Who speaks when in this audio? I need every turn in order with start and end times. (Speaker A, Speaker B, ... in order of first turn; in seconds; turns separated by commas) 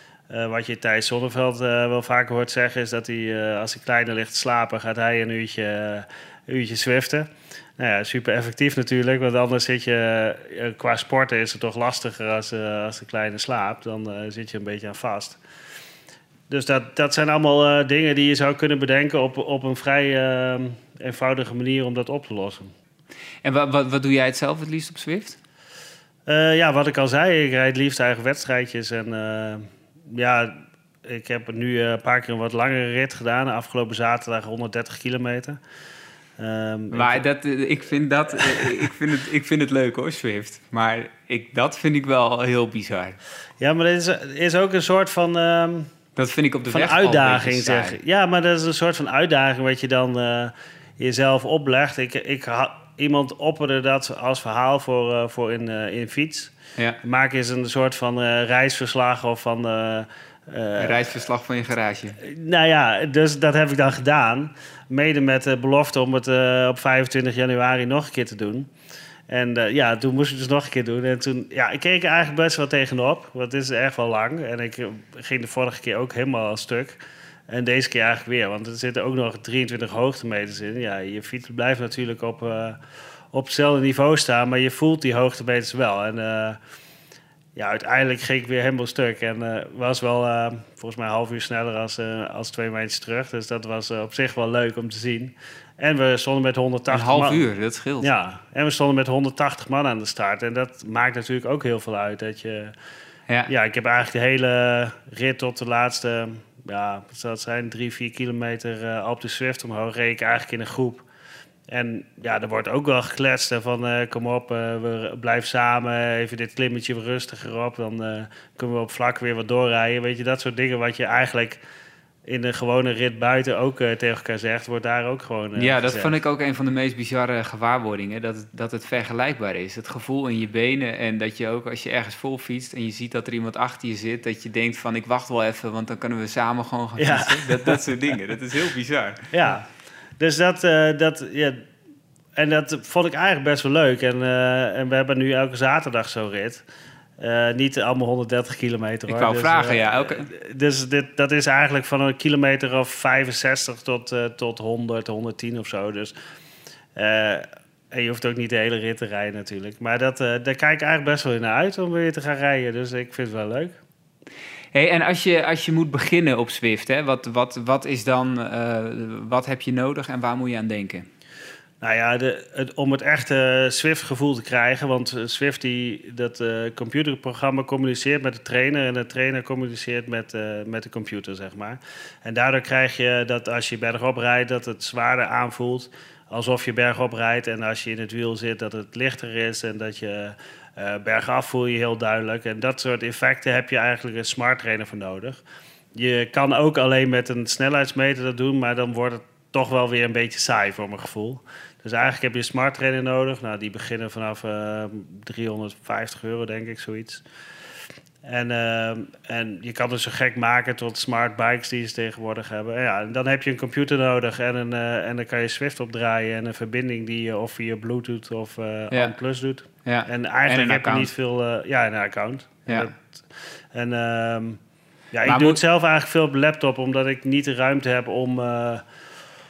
Speaker A: 0.3-15.4, Speaker A: 16.5-22.7, Speaker B: 23.4-25.4, Speaker A: 26.3-35.6, Speaker A: 36.4-37.2, Speaker B: 36.9-43.2, Speaker A: 43.6-45.9, Speaker B: 46.2-48.0, Speaker A: 46.7-61.1, Speaker B: 60.8-62.2, Speaker A: 62.2-68.7, Speaker A: 69.3-82.8, Speaker A: 83.3-86.6, Speaker A: 87.6-97.4, Speaker B: 96.9-98.1, Speaker A: 98.0-102.7, Speaker A: 103.5-111.1, Speaker A: 111.7-121.6, Speaker A: 122.2-126.1, Speaker B: 125.6-139.3, Speaker A: 137.0-137.8, Speaker A: 139.3-139.7, Speaker A: 140.2-141.6, Speaker A: 142.4-146.6, Speaker A: 147.2-156.1, Speaker B: 149.1-150.3, Speaker A: 157.0-163.8, Speaker B: 164.7-171.1, Speaker A: 171.8-195.4, Speaker A: 195.9-207.2, Speaker A: 208.2-224.6, Speaker B: 219.8-221.1, Speaker B: 222.7-222.9, Speaker A: 225.1-228.8, Speaker B: 225.3-225.6